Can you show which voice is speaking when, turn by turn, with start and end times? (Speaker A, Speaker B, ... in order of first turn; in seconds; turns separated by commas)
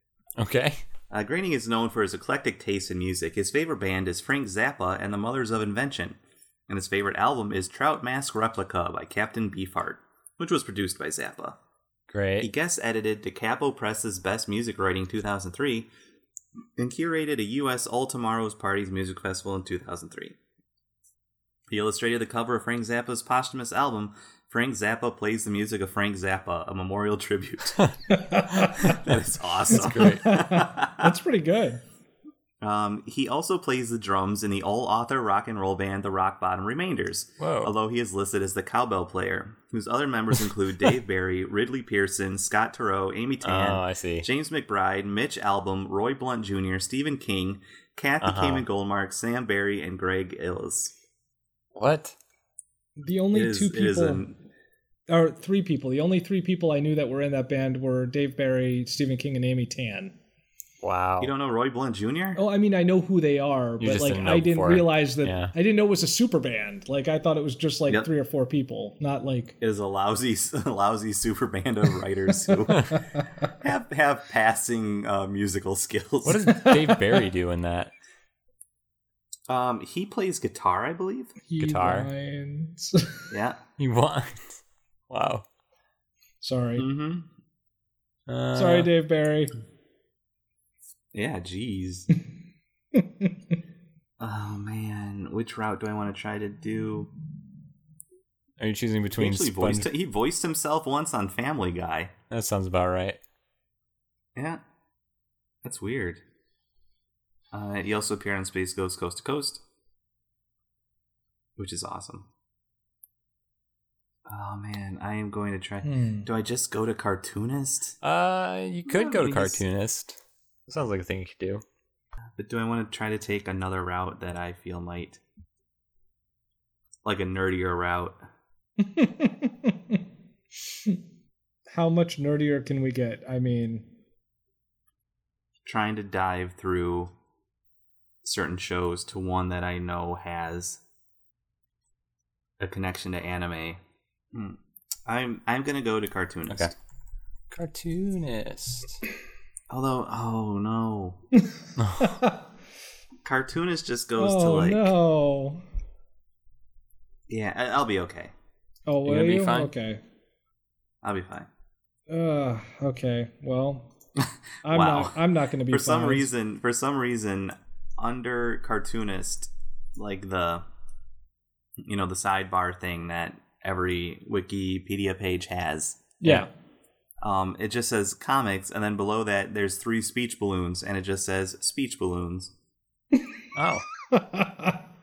Speaker A: 0.4-0.8, Speaker B: 1.1-11.6, Speaker A: 12.1-12.5, Speaker B: 12.4-15.9, Speaker B: 16.8-20.4, Speaker B: 21.7-27.8, Speaker C: 28.1-29.0, Speaker B: 28.8-31.1, Speaker A: 29.7-30.3, Speaker C: 29.8-31.8, Speaker B: 32.6-50.9, Speaker A: 37.4-37.7, Speaker A: 43.4-44.3, Speaker A: 48.2-48.6, Speaker A: 51.7-52.1, Speaker C: 53.0-54.2, Speaker B: 53.3-54.3, Speaker C: 55.1-60.1, Speaker A: 60.8-61.3, Speaker B: 61.2-62.4, Speaker C: 62.4-69.6, Speaker A: 63.8-65.5, Speaker B: 69.6-73.0, Speaker B: 73.6-76.5, Speaker A: 76.2-77.9, Speaker C: 76.5-77.0, Speaker B: 79.5-81.3, Speaker C: 81.4-83.3, Speaker A: 81.6-82.1, Speaker B: 83.3-83.6, Speaker A: 83.8-84.6, Speaker A: 85.1-85.4, Speaker C: 86.4-86.9, Speaker B: 86.8-87.3, Speaker A: 88.3-88.9, Speaker C: 88.5-89.5, Speaker B: 91.1-92.1, Speaker C: 92.9-93.3, Speaker B: 94.2-97.1, Speaker A: 98.6-99.9, Speaker B: 99.2-102.1, Speaker A: 102.3-103.2, Speaker B: 104.3-104.6, Speaker B: 105.6-106.2, Speaker B: 107.5-109.6, Speaker B: 111.6-112.3, Speaker B: 114.2-118.0, Speaker C: 115.8-116.3, Speaker A: 118.0-121.6, Speaker B: 118.9-119.6, Speaker B: 122.4-125.2, Speaker B: 127.0-128.2, Speaker C: 128.8-130.0, Speaker C: 131.7-133.9, Speaker B: 135.6-137.1, Speaker B: 138.2-140.8, Speaker B: 142.6-143.8, Speaker B: 144.3-146.7, Speaker A: 147.5-149.0, Speaker B: 149.7-151.2, Speaker A: 151.8-152.2, Speaker C: 152.0-152.3, Speaker B: 153.2-154.9, Speaker C: 154.2-155.6, Speaker B: 157.3-158.3, Speaker C: 158.9-160.0, Speaker A: 159.0-159.7, Speaker B: 161.0-161.5, Speaker C: 162.1-163.9, Speaker B: 164.2-170.6, Speaker C: 164.6-166.3, Speaker B: 171.8-176.1, Speaker C: 176.2-176.5, Speaker B: 177.2-182.5, Speaker A: 183.5-183.8, Speaker C: 184.1-184.8